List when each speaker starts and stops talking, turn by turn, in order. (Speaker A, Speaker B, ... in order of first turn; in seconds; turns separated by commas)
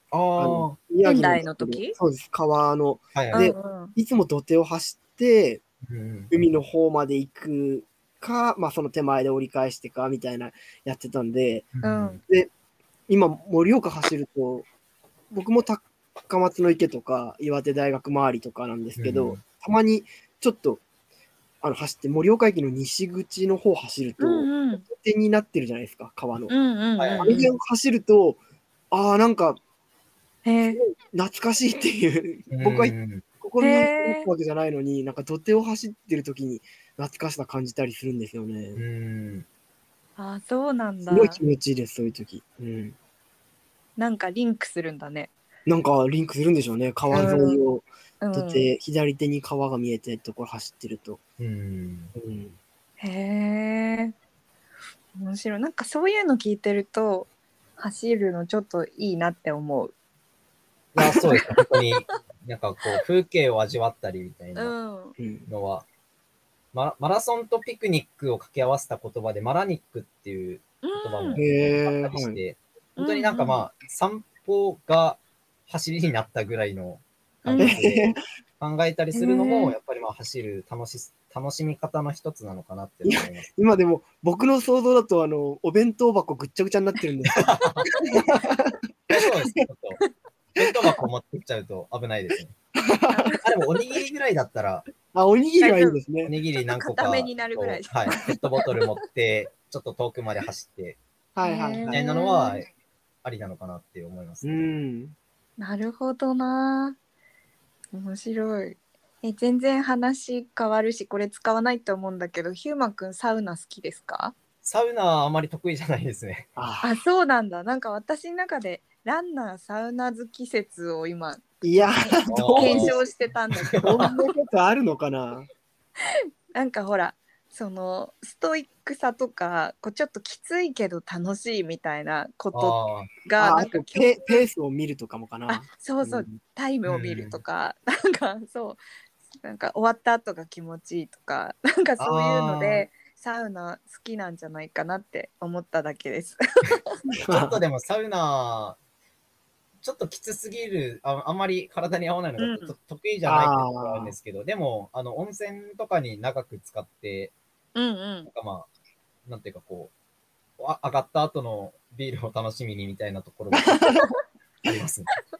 Speaker A: 0.1-0.8, Speaker B: 0.4-5.6, Speaker C: 1.0-2.0, Speaker A: 3.1-3.5, Speaker C: 3.3-4.0, Speaker A: 5.9-6.3, Speaker B: 6.3-11.7, Speaker A: 11.8-12.2, Speaker C: 11.8-12.2, Speaker B: 12.2-12.5, Speaker B: 13.1-14.7, Speaker B: 15.3-20.8, Speaker A: 19.0-19.4, Speaker B: 21.6-26.5, Speaker C: 24.2-24.9, Speaker C: 26.5-27.5, Speaker A: 27.0-27.5, Speaker B: 27.2-28.4, Speaker B: 28.9-29.6, Speaker C: 30.4-30.8, Speaker B: 30.8-38.8, Speaker A: 32.5-33.2, Speaker C: 33.6-34.3, Speaker A: 38.8-39.5, Speaker C: 40.2-41.4, Speaker B: 41.1-43.0, Speaker C: 44.0-45.3, Speaker B: 45.7-51.2, Speaker C: 47.1-47.6, Speaker C: 48.2-48.7, Speaker A: 51.4-52.1, Speaker B: 52.1-52.6, Speaker C: 53.0-54.1, Speaker C: 55.2-59.9, Speaker A: 60.9-64.8, Speaker C: 61.1-61.6, Speaker C: 64.6-65.2, Speaker B: 65.2-65.5, Speaker A: 65.5-65.9, Speaker A: 66.7-83.5, Speaker C: 70.8-71.4, Speaker B: 71.4-72.4, Speaker C: 73.0-73.6, Speaker C: 77.5-77.9, Speaker B: 77.6-78.2, Speaker C: 79.1-79.8, Speaker B: 83.0-89.3, Speaker A: 87.3-87.9, Speaker A: 89.1-90.0, Speaker A: 90.6-92.5, Speaker B: 92.8-93.4, Speaker C: 93.1-93.5, Speaker A: 93.4-94.9, Speaker B: 95.1-96.3, Speaker C: 95.6-96.0, Speaker A: 96.2-101.0, Speaker C: 96.6-98.8, Speaker B: 101.4-102.0, Speaker C: 101.4-102.7, Speaker A: 101.9-102.7, Speaker A: 103.2-104.7, Speaker B: 104.4-105.2, Speaker C: 105.6-107.0, Speaker C: 107.9-114.3, Speaker A: 114.6-116.5, Speaker B: 116.6-116.9, Speaker C: 116.8-121.5, Speaker B: 121.6-123.0, Speaker C: 122.0-124.2, Speaker A: 122.3-123.0, Speaker A: 123.7-124.1, Speaker B: 123.8-125.5, Speaker C: 126.0-134.4, Speaker A: 132.5-133.2, Speaker B: 133.4-136.4, Speaker C: 135.5-138.8, Speaker A: 136.9-137.4, Speaker C: 139.4-146.8, Speaker A: 142.0-142.9, Speaker B: 147.2-147.6, Speaker A: 147.3-148.8, Speaker A: 149.8-157.3, Speaker C: 152.4-152.8, Speaker B: 153.2-154.2, Speaker C: 157.8-158.3, Speaker A: 158.3-158.7, Speaker A: 159.3-159.9, Speaker A: 160.6-164.0, Speaker B: 163.6-164.1, Speaker A: 164.7-165.1